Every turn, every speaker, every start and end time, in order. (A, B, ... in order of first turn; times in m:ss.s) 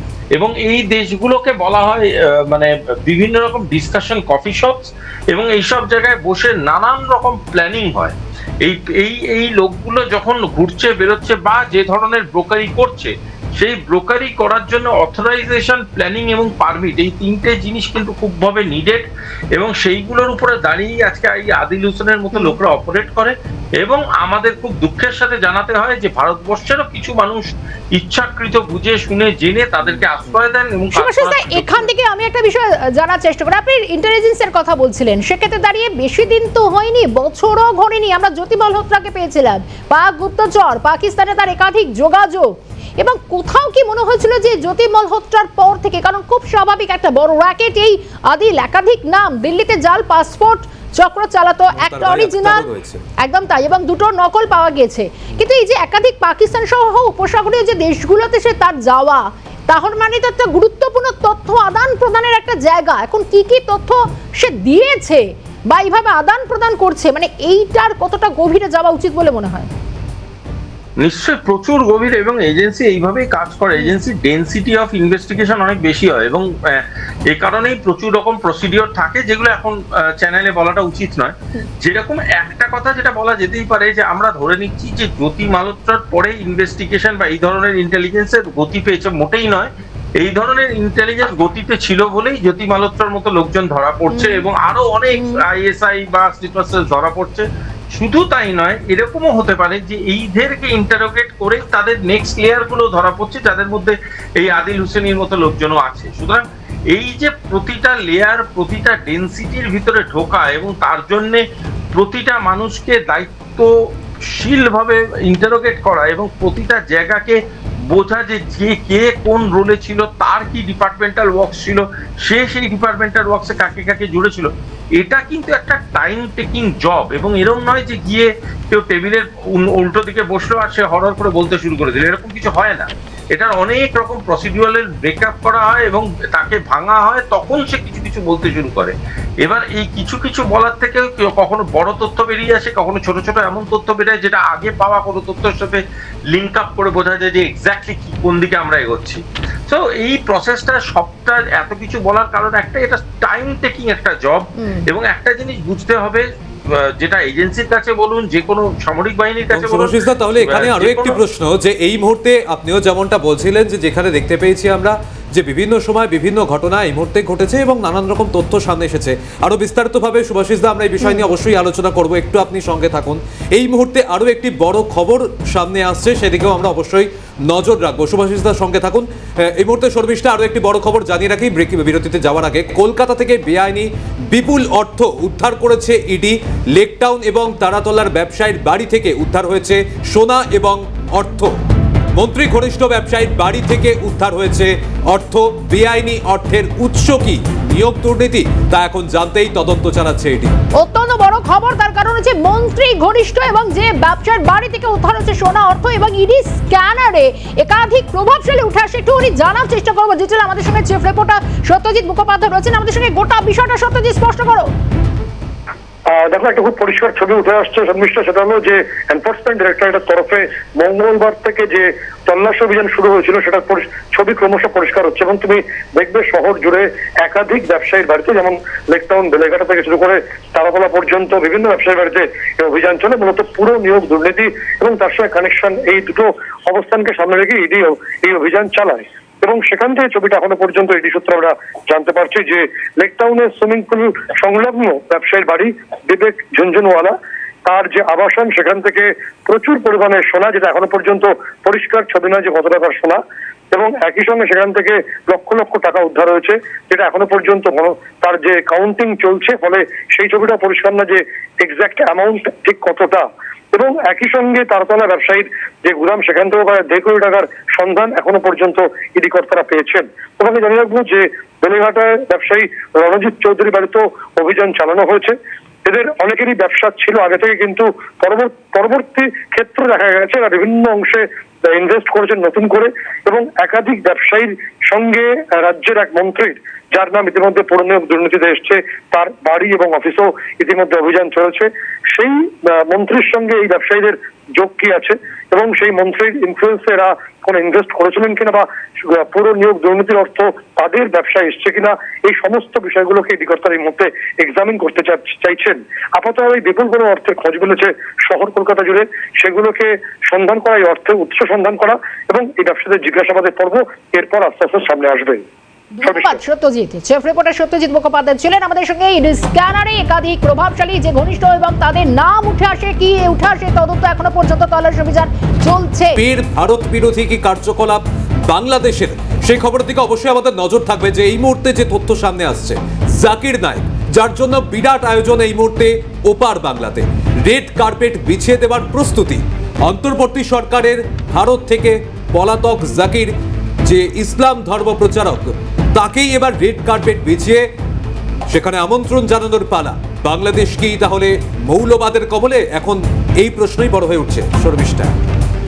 0:00.4-0:31.9 A
0:31.0-0:52.6 B
0:51.7-0:53.0 C
0:53.2-1:09.7 B
1:11.0-1:53.7 A
1:34.1-1:34.4 B
1:54.3-2:41.2 A
2:39.5-3:11.5 C
3:12.2-3:20.5 C
3:20.8-3:34.7 B
3:36.1-4:07.1 D
4:07.7-4:13.2 D
4:13.7-5:15.4 D
5:15.9-5:26.2 B
5:16.0-5:16.4 D
5:26.2-5:43.3 C
5:43.8-5:47.6 C
5:48.5-5:55.1 C